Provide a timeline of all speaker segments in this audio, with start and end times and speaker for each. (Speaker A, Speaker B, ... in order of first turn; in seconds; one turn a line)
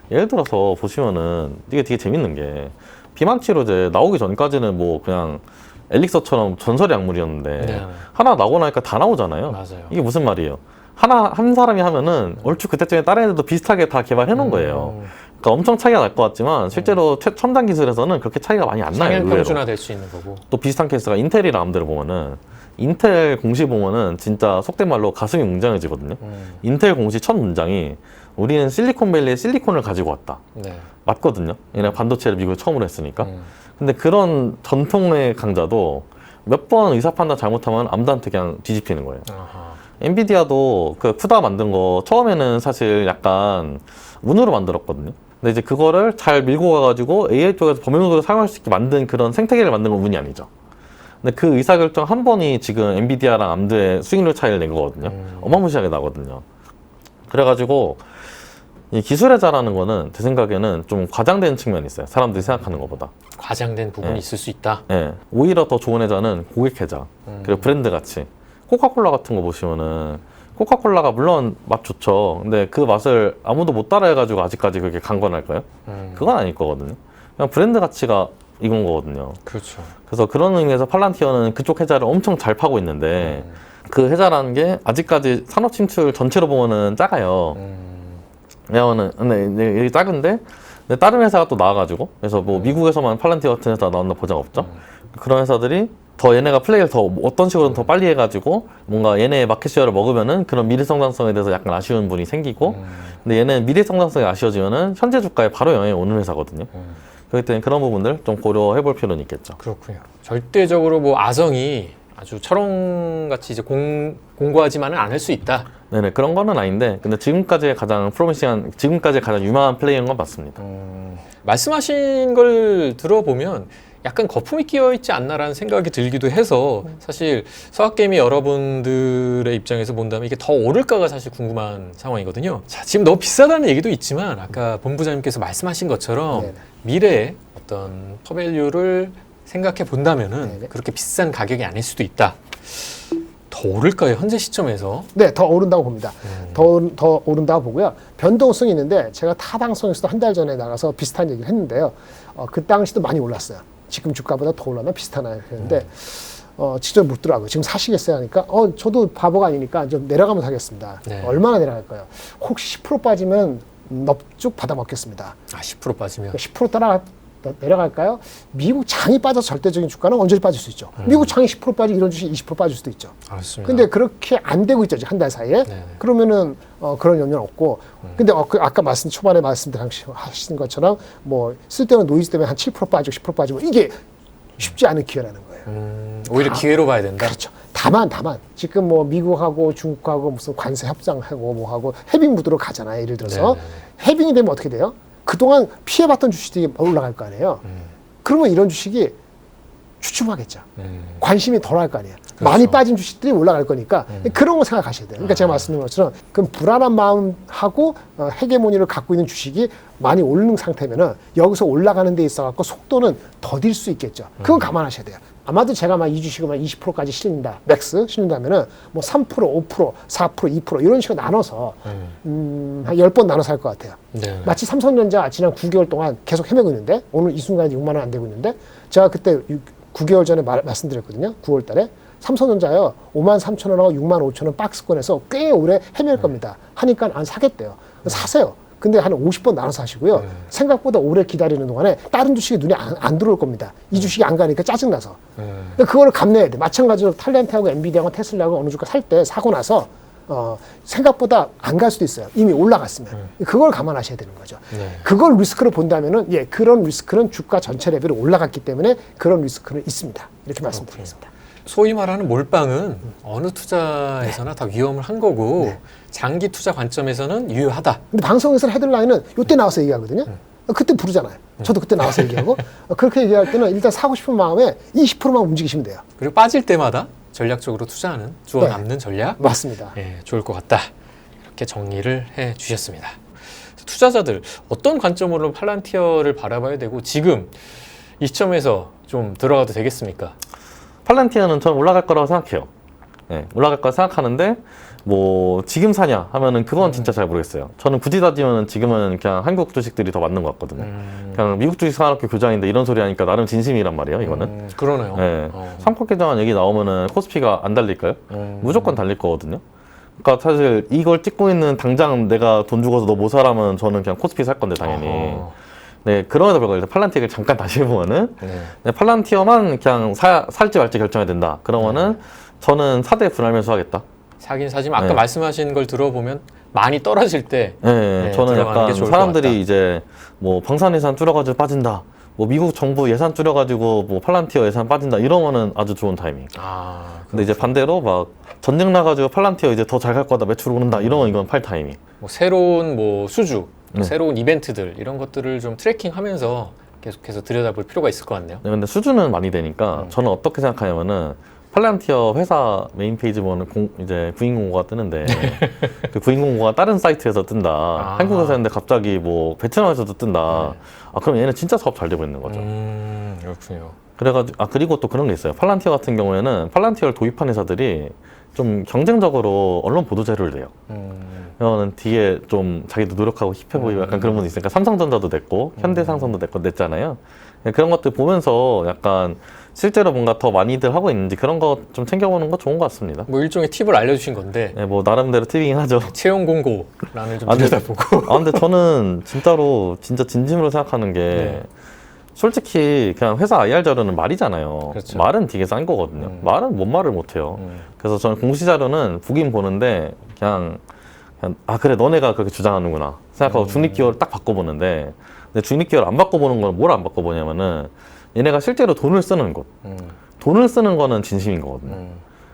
Speaker A: 0.1-19.6
Speaker B: 7.6-8.1
Speaker B: 9.5-9.9
Speaker B: 14.3-15.1
Speaker B: 16.7-17.0
Speaker B: 18.9-20.4
Speaker A: 20.5-30.4
Speaker B: 26.2-26.6
Speaker B: 30.6-30.9
Speaker A: 31.1-39.3
Speaker B: 33.2-33.5
Speaker B: 39.3-39.8
Speaker A: 40.0-50.5
Speaker A: 51.2-56.4
Speaker B: 55.0-55.6
Speaker A: 57.3-58.0
Speaker A: 58.9-63.1
Speaker B: 62.4-62.8
Speaker B: 63.4-64.8
Speaker A: 64.9-79.4
Speaker B: 67.3-67.7
Speaker B: 75.9-76.3
Speaker B: 79.5-79.9
Speaker A: 80.1-87.6
Speaker B: 83.2-83.6
Speaker B: 87.5-88.2
Speaker A: 88.7-106.7
Speaker B: 92.5-92.8
Speaker B: 94.6-94.8
Speaker B: 97.6-97.9
Speaker B: 102.6-103.2
Speaker B: 106.7-107.0
Speaker A: 107.3-109.6
Speaker B: 109.6-115.7
Speaker A: 115.9-120.6
Speaker B: 120.6-145.1
Speaker C: 136.3-136.6
Speaker C: 145.1-165.4
Speaker B: 146.2-146.7
Speaker B: 155.6-155.9
Speaker B: 161.1-161.4
Speaker B: 165.5-166.4
Speaker C: 166.3-184.0
Speaker B: 171.0-171.3
Speaker B: 173.3-173.9
Speaker B: 175.7-176.0
Speaker C: 184.6-185.7
Speaker B: 185.7-187.3
Speaker C: 186.4-186.7
Speaker C: 187.2-197.6
Speaker B: 193.2-193.8
Speaker B: 197.7-197.9
Speaker C: 198.2-199.2
Speaker C: 200.0-200.7
Speaker B: 200.8-201.2
Speaker C: 201.2-245.2
Speaker B: 202.4-202.8
Speaker B: 204.1-204.4
Speaker B: 205.2-205.7
Speaker B: 214.4-214.7
Speaker B: 221.8-222.2
Speaker B: 224.1-224.6
Speaker B: 240.2-240.5
Speaker B: 245.4-245.8
Speaker C: 245.8-261.3
Speaker B: 254.7-255.1
Speaker B: 260.7-261.1
Speaker B: 261.7-268.0
Speaker C: 268.1-276.0
Speaker B: 271.6-272.4
Speaker B: 276.2-280.9
Speaker C: 279.4-279.9
Speaker B: 281.6-290.4
Speaker A: 291.1-292.7
Speaker A: 293.3-304.5
Speaker B: 296.8-297.1
Speaker B: 300.8-301.4
Speaker B: 304.2-305.9
Speaker A: 305.1-309.6
Speaker B: 308.3-309.0
Speaker A: 310.2-315.5
Speaker B: 314.8-315.5
Speaker A: 316.0-324.0
Speaker B: 318.4-318.8
Speaker B: 321.8-322.2
Speaker B: 324.4-329.6
Speaker A: 325.0-325.2
Speaker A: 327.8-336.5
Speaker B: 336.6-337.7
Speaker A: 337.3-342.0
Speaker B: 340.9-341.3
Speaker B: 342.2-348.6
Speaker A: 348.6-362.7
Speaker B: 355.2-356.0
Speaker B: 358.0-358.6
Speaker B: 360.5-360.8
Speaker B: 362.4-364.0
Speaker A: 364.2-370.7
Speaker B: 370.9-371.5
Speaker A: 371.6-383.3
Speaker B: 373.8-374.5
Speaker B: 375.8-376.4
Speaker B: 383.3-384.8
Speaker A: 384.8-386.1
Speaker B: 386.1-388.7
Speaker A: 387.5-391.7
Speaker B: 391.3-391.6
Speaker A: 392.4-400.8
Speaker B: 394.9-395.3
Speaker B: 396.2-396.5
Speaker B: 397.6-397.9
Speaker A: 401.4-409.7
Speaker B: 403.4-404.1
Speaker B: 409.8-410.2
Speaker A: 410.4-412.0
Speaker B: 411.9-412.2